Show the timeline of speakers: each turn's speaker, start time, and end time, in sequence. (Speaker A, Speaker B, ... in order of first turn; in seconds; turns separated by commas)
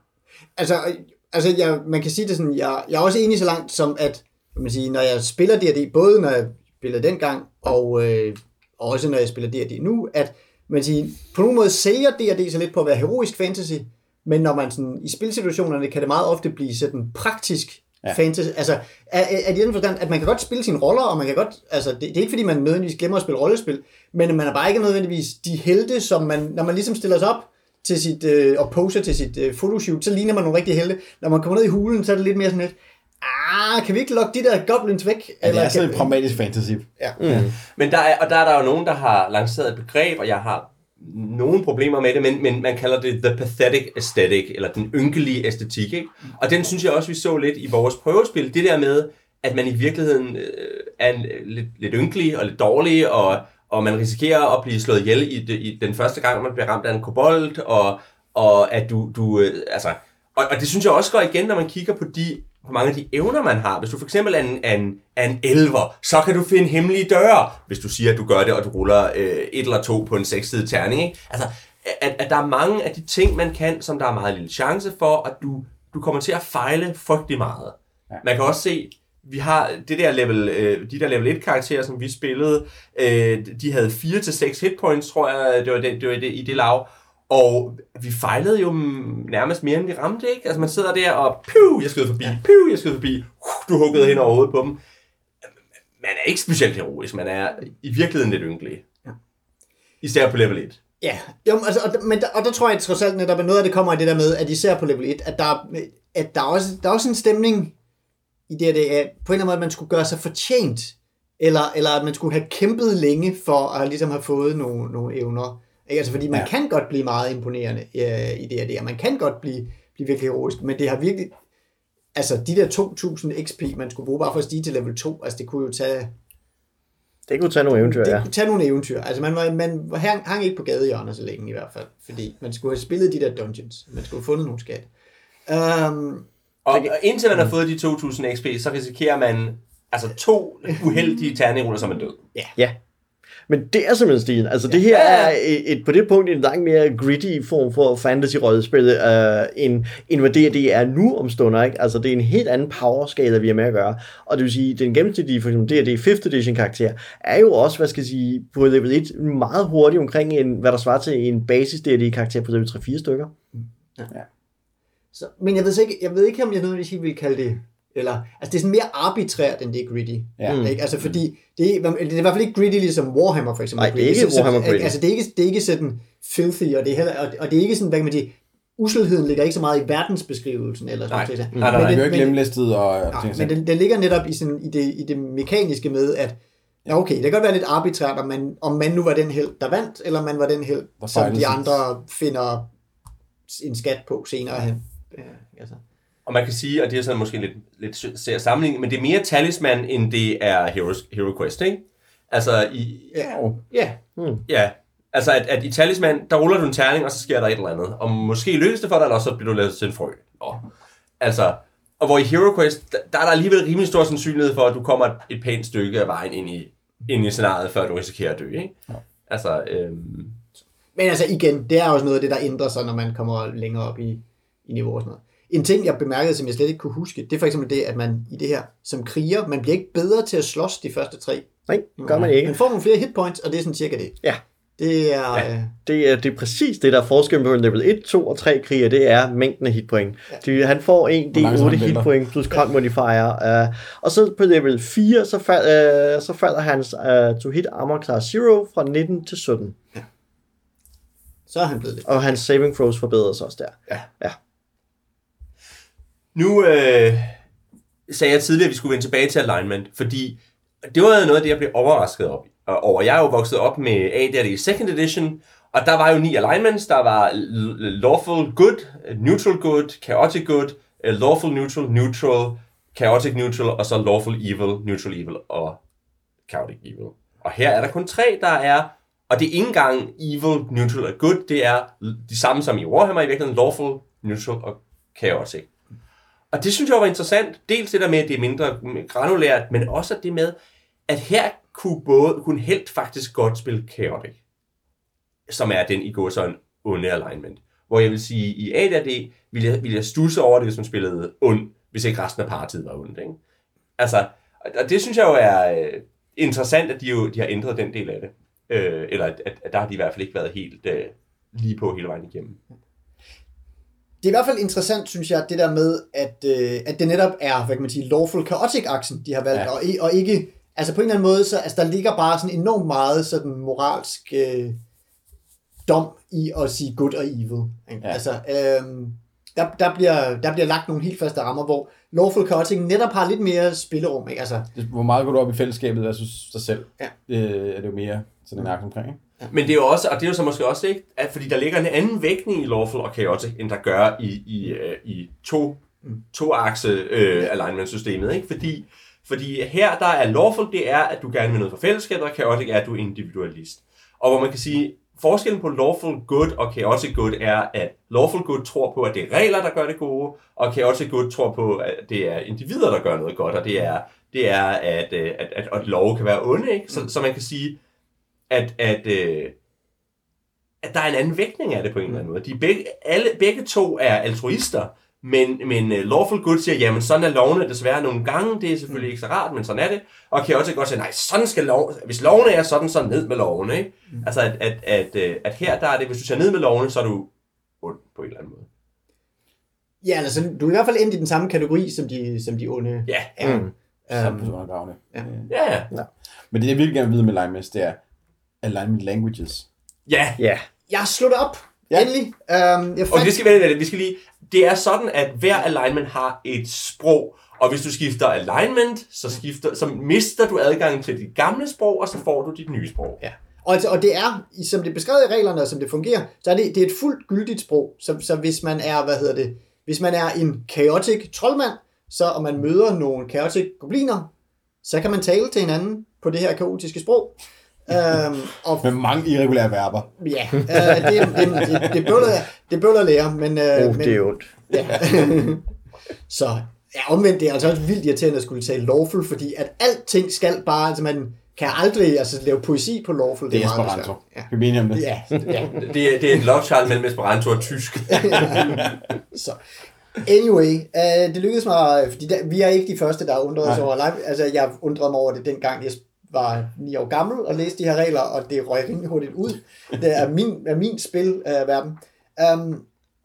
Speaker A: 0.6-36.2, Speaker B: 35.4-37.4, Speaker C: 37.2-37.6, Speaker D: 37.6-94.8, Speaker D: 96.0-98.8, Speaker D: 100.0-100.8, Speaker A: 101.0-107.8, Speaker A: 108.5-121.3, Speaker A: 122.2-126.1, Speaker C: 127.3-128.3, Speaker A: 127.8-134.9, Speaker A: 135.5-136.3, Speaker D: 136.7-142.2, Speaker C: 143.5-163.3, Speaker D: 144.9-145.3, Speaker A: 165.1-182.4, Speaker B: 170.4-171.1, Speaker C: 170.5-170.8, Speaker C: 173.8-175.0, Speaker D: 181.1-182.0, Speaker B: 181.6-183.6, Speaker A: 183.1-192.7, Speaker B: 191.0-191.8, Speaker A: 193.5-195.8, Speaker D: 196.3-203.2, Speaker A: 203.1-204.0, Speaker C: 204.2-204.4, Speaker D: 204.5-210.7, Speaker D: 211.2-218.8, Speaker D: 219.3-220.4, Speaker A: 220.9-234.2, Speaker C: 231.7-232.6, Speaker A: 234.8-235.7, Speaker C: 235.8-249.8, Speaker B: 241.3-242.2, Speaker A: 251.5-252.1, Speaker C: 252.1-254.4, Speaker D: 256.4-257.4, Speaker D: 258.1-275.8, Speaker D: 276.5-285.7, Speaker D: 286.5-290.6, Speaker D: 291.1-294.4, Speaker D: 295.5-303.4, Speaker D: 304.0-312.6, Speaker A: 314.2-324.8, Speaker A: 325.9-334.7, Speaker B: 334.8-339.2, Speaker D: 339.5-367.8, Speaker D: 368.5-369.6, Speaker D: 370.8-387.3, Speaker D: 387.8-388.7, Speaker A: 390.0-394.5, Speaker D: 393.1-393.3, Speaker C: 393.4-393.7, Speaker B: 394.1-395.5, Speaker D: 395.5-395.9, Speaker B: 396.5-398.0, Speaker B: 398.6-399.7, Speaker D: 400.1-400.4, Speaker C: 400.4-400.7, Speaker A: 400.9-403.4, Speaker D: 403.1-413.2, Speaker A: 413.2-424.3, Speaker A: 424.8-428.9, Speaker B: 428.8-430.1, Speaker A: 430.2-435.7, Speaker B: 430.6-432.3, Speaker C: 433.7-434.5, Speaker A: 436.3-445.9, Speaker B: 443.5-445.1, Speaker D: 445.6-448.9, Speaker A: 448.1-449.6, Speaker A: 450.2-462.9, Speaker B: 453.6-453.9